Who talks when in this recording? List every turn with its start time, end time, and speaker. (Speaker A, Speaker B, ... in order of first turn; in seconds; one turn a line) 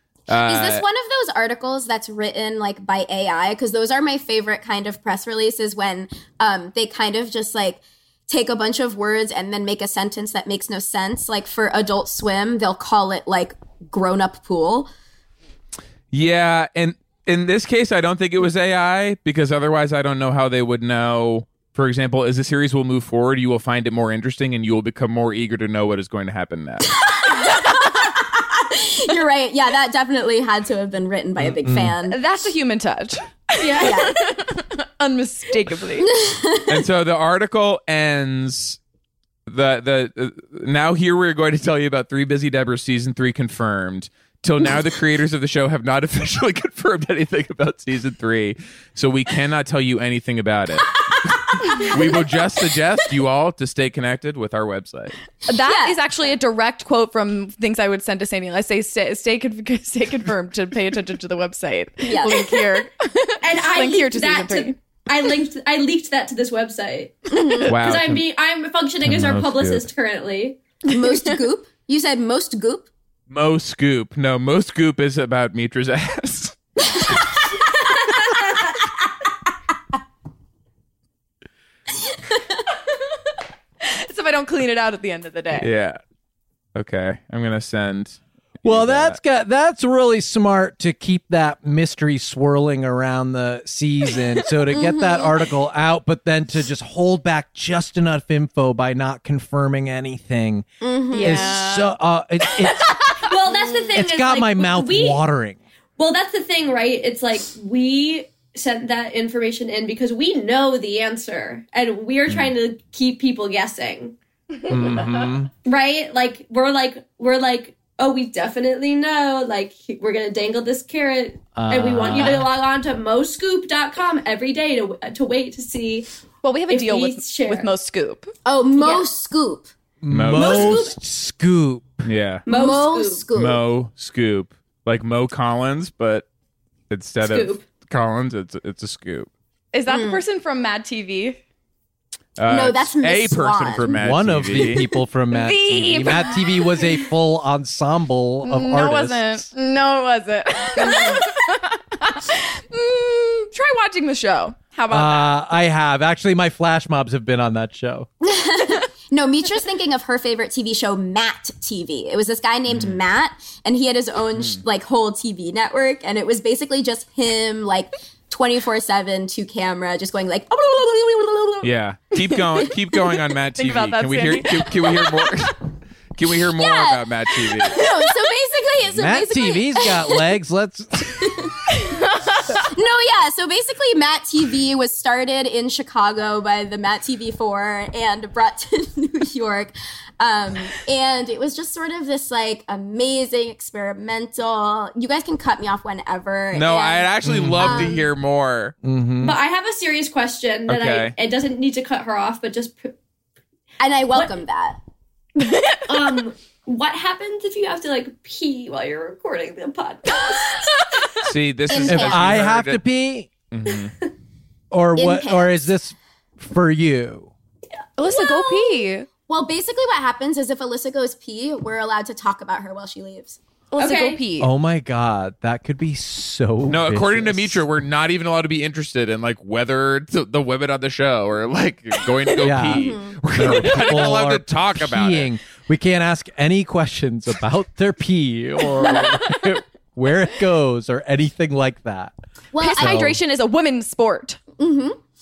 Speaker A: 0.3-0.8
Speaker B: 0.3-14.9
Speaker A: 16.1-26.9
Speaker B: 26.9-32.2
Speaker C: 31.4-32.0
Speaker D: 32.1-36.1
Speaker E: 33.6-34.0
Speaker B: 33.8-34.2
Speaker B: 36.1-36.8
Speaker A: 36.7-38.8
Speaker A: 39.5-55.2
Speaker D: 55.5-64.8
Speaker B: 55.5-56.2
Speaker B: 62.0-62.7
Speaker E: 63.4-70.6
Speaker B: 67.3-67.8
Speaker A: 67.7-68.2
Speaker C: 69.1-69.8
Speaker B: 70.9-72.9
Speaker A: 73.3-76.5
Speaker D: 83.8-85.7
Speaker A: 85.5-86.0
Speaker A: 86.8-89.2
Speaker C: 88.6-100.7
Speaker B: 94.7-95.4
Speaker B: 100.8-101.6
Speaker D: 101.1-102.0
Speaker C: 101.2-103.2
Speaker E: 103.2-105.2
Speaker C: 103.9-105.6
Speaker E: 106.0-114.2
Speaker C: 114.7-115.5
Speaker E: 114.7-126.1
Speaker C: 121.6-122.5
Speaker D: 126.4-128.3
Speaker E: 126.7-127.7
Speaker B: 128.4-129.7
Speaker E: 128.8-129.1
Speaker C: 130.0-132.0
Speaker A: 130.1-130.8
Speaker E: 130.3-131.0
Speaker A: 132.1-132.4
Speaker E: 132.5-133.3
Speaker B: 132.5-133.6
Speaker A: 133.3-136.3
Speaker A: 136.9-139.3
Speaker E: 137.2-137.6
Speaker D: 139.7-141.4
Speaker B: 139.9-140.2
Speaker A: 142.4-144.8
Speaker B: 142.5-144.0
Speaker C: 144.0-149.5
Speaker D: 145.3-146.8
Speaker D: 148.4-155.4
Speaker B: 150.8-151.2
Speaker C: 154.9-158.1
Speaker B: 158.2-171.7
Speaker A: 162.7-163.0
Speaker A: 164.3-164.6
Speaker A: 171.6-175.6
Speaker D: 173.6-175.3
Speaker A: 176.2-177.8
Speaker B: 176.6-177.0
Speaker B: 177.6-180.3
Speaker C: 178.9-181.3
Speaker B: 181.1-181.7
Speaker D: 181.8-182.6
Speaker B: 182.6-198.1
Speaker A: 196.5-198.8
Speaker C: 197.2-197.9
Speaker C: 198.8-199.4
Speaker E: 199.2-202.9
Speaker A: 200.7-201.1
Speaker B: 203.8-204.8
Speaker D: 205.4-206.2
Speaker E: 205.9-211.0
Speaker A: 211.2-212.8
Speaker B: 211.7-212.4
Speaker C: 211.9-213.3
Speaker A: 213.5-213.9
Speaker C: 214.7-217.3
Speaker B: 215.0-215.7
Speaker D: 218.0-219.1
Speaker B: 218.1-218.8
Speaker B: 219.3-223.4
Speaker D: 223.7-224.5
Speaker E: 223.8-224.2
Speaker C: 224.4-227.6
Speaker A: 226.7-235.3
Speaker C: 232.4-242.1
Speaker B: 232.7-233.2
Speaker B: 242.5-243.1
Speaker D: 242.6-244.4
Speaker C: 242.7-243.2
Speaker B: 244.6-245.0